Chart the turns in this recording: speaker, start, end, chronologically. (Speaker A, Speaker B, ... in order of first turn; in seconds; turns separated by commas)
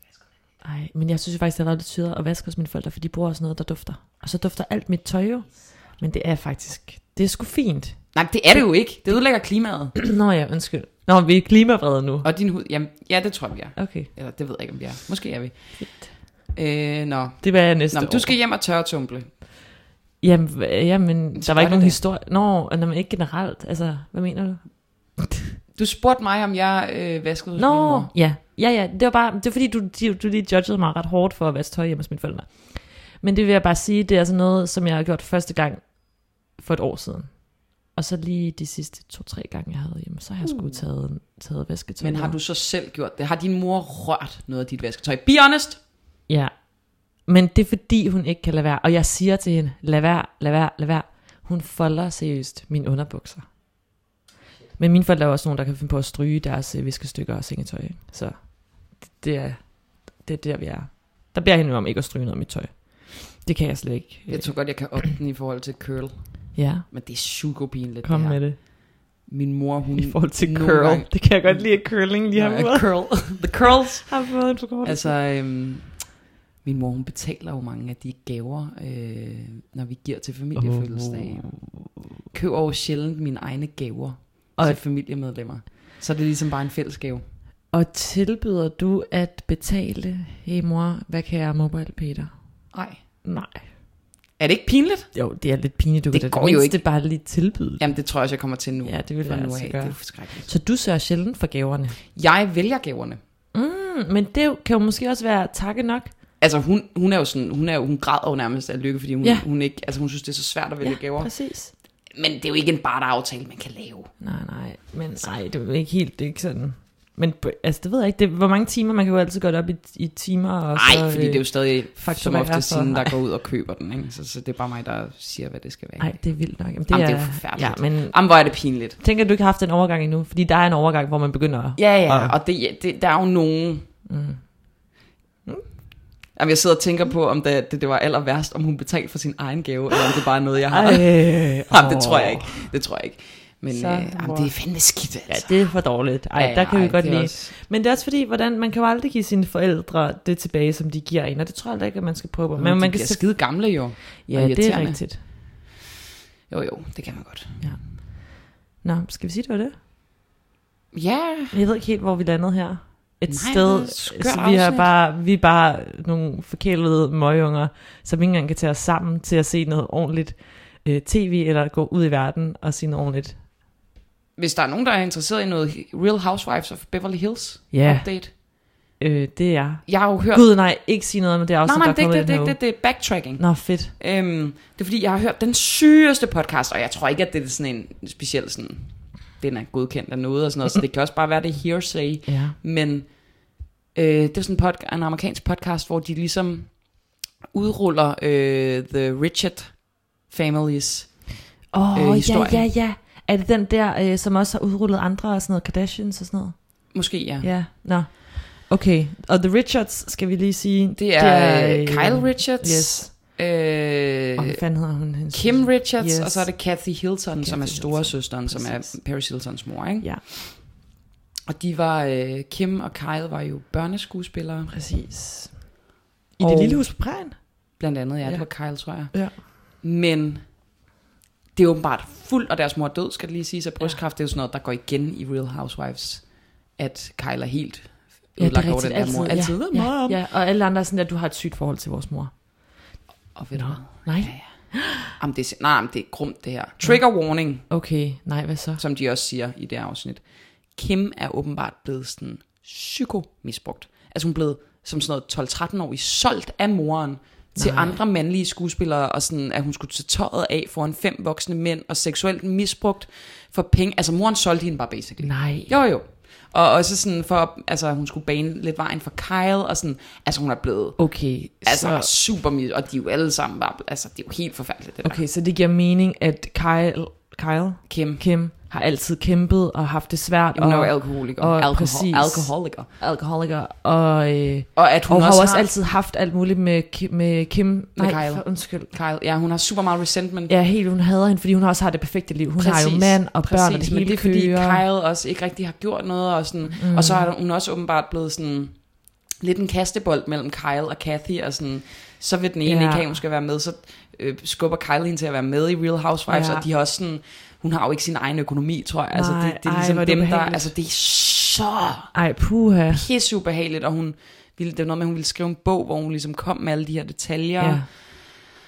Speaker A: 0.6-8.6, Speaker B: 8.1-10.0, Speaker A: 9.9-12.3, Speaker B: 12.2-19.3, Speaker A: 13.8-14.1, Speaker A: 15.8-16.1, Speaker A: 17.4-18.4, Speaker A: 20.2-25.4, Speaker B: 21.3-22.0, Speaker B: 25.7-28.1, Speaker A: 27.6-42.4, Speaker B: 40.4-40.9, Speaker B: 42.0-45.8, Speaker A: 46.3-53.5, Speaker A: 54.8-65.1, Speaker B: 64.3-68.7, Speaker A: 66.5-66.9, Speaker A: 68.0-68.6, Speaker B: 69.2-74.2, Speaker A: 70.0-73.5, Speaker A: 74.0-75.1, Speaker B: 74.8-81.7, Speaker A: 80.6-81.8, Speaker B: 82.3-87.2, Speaker A: 84.5-84.8, Speaker A: 87.7-92.4, Speaker B: 92.7-93.0, Speaker A: 93.2-93.7, Speaker B: 94.4-95.2, Speaker A: 95.1-97.8, Speaker B: 96.1-96.8, Speaker B: 97.8-100.5, Speaker A: 98.8-102.0, Speaker B: 102.1-103.2, Speaker A: 103.5-106.1, Speaker B: 106.4-111.3, Speaker A: 110.8-111.7, Speaker B: 112.1-114.1, Speaker A: 114.2-123.2, Speaker B: 120.7-126.4, Speaker A: 126.0-132.4, Speaker B: 126.9-129.0, Speaker B: 131.8-133.9, Speaker A: 134.1-135.6, Speaker B: 136.3-145.8, Speaker A: 140.7-142.7, Speaker A: 143.7-144.5, Speaker A: 145.3-153.8, Speaker B: 146.3-147.6, Speaker B: 152.6-155.3, Speaker A: 154.3-155.3, Speaker B: 156.5-157.6, Speaker A: 157.6-159.7, Speaker B: 160.9-161.6, Speaker A: 161.5-173.4, Speaker B: 163.3-164.9, Speaker B: 174.4-178.3, Speaker A: 177.7-183.9, Speaker B: 179.9-180.5, Speaker B: 181.6-202.7, Speaker A: 192.3-192.6, Speaker A: 201.7-213.3, Speaker B: 206.9-207.6, Speaker B: 211.0-214.6, Speaker A: 214.4-219.0, Speaker B: 215.3-220.7, Speaker B: 221.5-224.8, Speaker A: 224.7-225.8, Speaker A: 226.4-229.4, Speaker B: 226.4-230.6, Speaker B: 231.6-240.2, Speaker A: 238.4-242.8, Speaker B: 243.3-247.7, Speaker A: 243.5-245.1, Speaker A: 246.8-247.1, Speaker A: 247.6-248.8, Speaker B: 248.8-275.2, Speaker A: 257.6-258.0, Speaker A: 265.2-265.7, Speaker A: 271.0-272.1, Speaker A: 275.0-288.9, Speaker B: 277.9-278.2, Speaker B: 280.6-282.9, Speaker B: 284.7-285.7, Speaker B: 287.9-290.5, Speaker A: 290.5-294.8, Speaker B: 292.6-312.1, Speaker A: 296.7-297.3, Speaker A: 302.6-303.2, Speaker A: 306.3-306.6, Speaker A: 309.1-310.7, Speaker A: 312.1-313.1, Speaker B: 312.9-318.4, Speaker A: 317.6-317.9